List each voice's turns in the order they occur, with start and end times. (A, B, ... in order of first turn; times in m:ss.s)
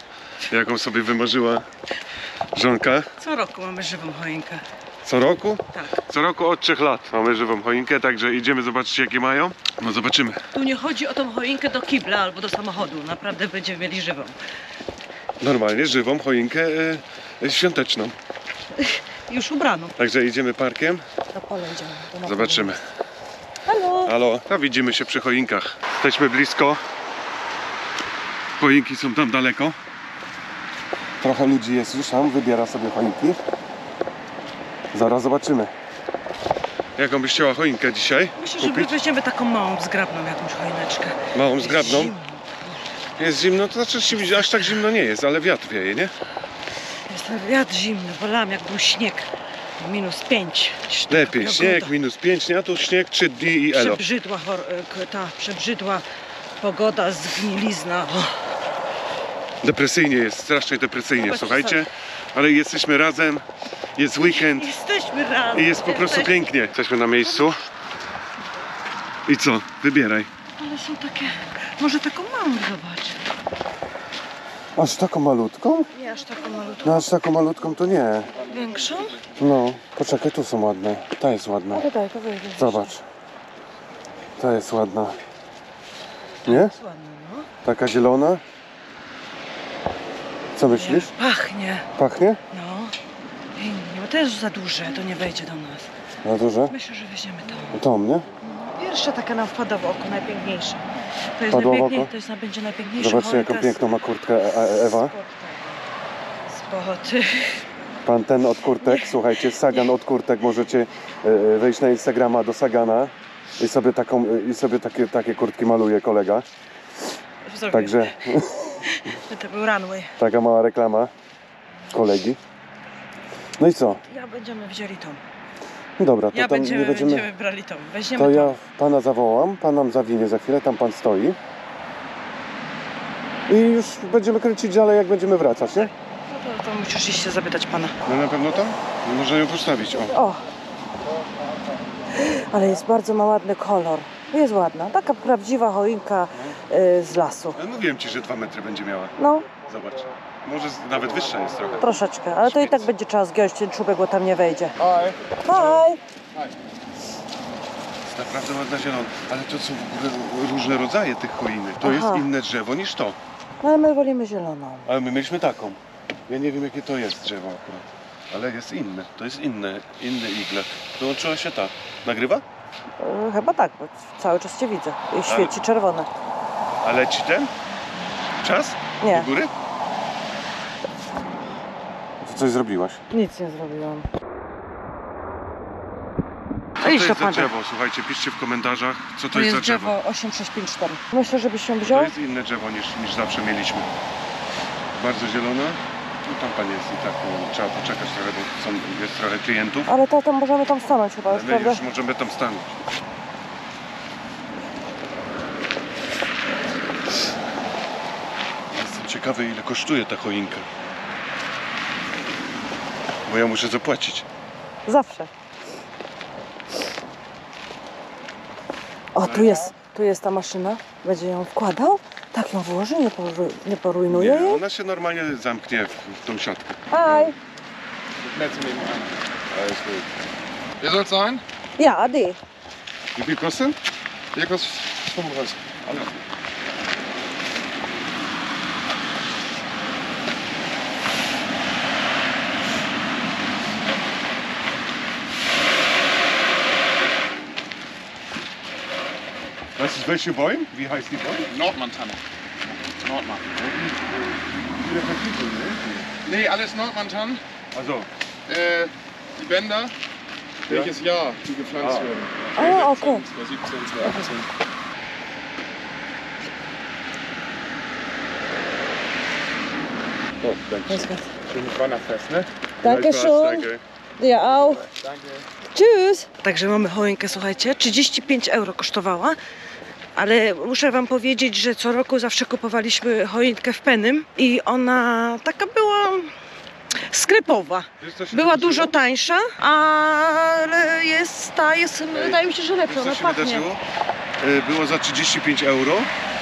0:00.5-0:01.6 A
0:02.5-0:03.1 A
0:03.2-0:04.6 B
0:05.0-0:10.5 A
0:05.7-0:06.0 B
0:10.5-0:14.4 B
0:15.4-0:18.2 A
0:18.8-0:19.9 B
0:20.0-0:21.0 A
0:21.3-0:22.8 B
0:22.2-0:22.8 A
0:23.7-0:24.1 B
0:24.0-0:26.8 A
0:28.6-0:29.8 A
0:31.2-0:33.4 A
0:34.9-0:35.7 A
0:37.0-0:38.9 A
0:38.4-0:42.8 B
0:41.3-0:42.1 A
0:43.2-0:46.1 A
0:47.1-0:51.9 B
0:51.1-0:54.0 A
0:53.7-0:56.0 B
0:56.6-0:58.6 B
0:59.6-1:04.7 A
1:01.2-1:01.9 B
1:04.2-1:06.4 B
1:05.5-1:07.6 A
1:07.3-1:07.7 B
1:09.3-1:10.3 A
1:10.5-1:13.3 B
1:14.7-1:15.9 A
1:15.9-1:17.2 B
1:16.8-1:18.3 A
1:18.5-1:19.2 B
1:19.4-1:21.9 A
1:21.7-1:23.0 B
1:22.6-1:23.0 A
1:24.4-1:25.2 A
1:26.4-1:26.8 A
1:26.4-1:27.5 B
1:27.6-1:28.4 A
1:30.6-1:31.1 A
1:30.7-1:31.9 B
1:32.0-1:32.4 A
1:32.5-1:33.0 B
1:33.6-1:35.9 B
1:36.2-1:36.7 A
1:36.7-1:37.8 B
1:37.7-1:38.3 A
1:38.4-1:40.8 B
1:41.4-1:44.0 B
1:41.5-1:42.1 A
1:43.0-1:45.2 A
1:44.6-1:45.8 B
1:46.5-1:47.7 B
1:48.0-1:56.4 A
1:48.8-1:49.9 B
1:57.4-2:00.2 B
1:57.7-1:58.8 A
2:00.2-2:01.1 A
2:01.9-2:02.4 A
2:03.6-2:04.0 A
2:04.0-2:05.2 B
2:06.0-2:07.3 A
2:06.3-2:08.6 B
2:08.2-2:11.4 A
2:13.5-2:15.9 A
2:15.7-2:18.0 B
2:18.0-2:20.2 A
2:20.1-2:20.4 B
2:22.1-2:27.6 B
2:27.6-2:32.9 A
2:29.2-2:29.5 B
2:31.8-2:34.8 B
2:34.8-2:35.2 C
2:35.4-2:36.0 B
2:35.5-2:35.8 A
2:38.0-2:43.2 A
2:41.8-2:42.3 B
2:43.6-2:44.9 B
2:44.9-2:52.4 A
2:53.0-2:56.1 B
2:55.2-2:55.6 A
2:56.8-2:57.5 A
2:58.4-2:59.5 A
2:59.0-2:59.3 B
3:02.2-3:03.0 A
3:03.1-3:04.1 B
3:06.8-3:10.0 A
3:06.8-3:07.5 B
3:09.3-3:12.1 B
3:11.8-3:14.0 A
3:14.9-3:19.9 A
3:19.9-3:21.8 B
3:21.3-3:22.8 A
3:28.7-3:30.7 A
3:33.3-3:34.3 A
3:34.9-3:35.3 B
3:39.1-3:44.6 B
3:39.2-3:39.6 A
3:44.1-3:47.3 A
3:46.9-3:47.4 B
3:48.2-3:49.9 C
3:49.6-3:50.0 A
3:50.8-3:51.4 C
3:51.8-3:52.4 B
3:53.2-3:53.8 A
3:54.3-3:56.1 C
4:09.8-4:11.5 A
4:11.5-4:13.7 C
4:13.6-4:14.1 A
4:14.7-4:16.1 A
4:16.2-4:17.4 C
4:17.7-4:18.1 A
4:18.5-4:19.9 C
4:20.7-4:24.5 C
4:21.8-4:22.1 A
4:22.6-4:23.3 B
4:24.0-4:24.3 B
4:30.4-4:32.5 C
4:30.9-4:31.3 B
4:32.8-4:34.9 B
4:32.8-4:33.8 A
4:33.2-4:33.6 C
4:34.9-4:35.5 C
4:35.7-4:39.4 B
4:40.2-4:46.3 B
4:47.1-4:53.7 B
4:48.0-4:49.0 A
4:52.1-4:53.8 A
4:54.4-4:56.1 A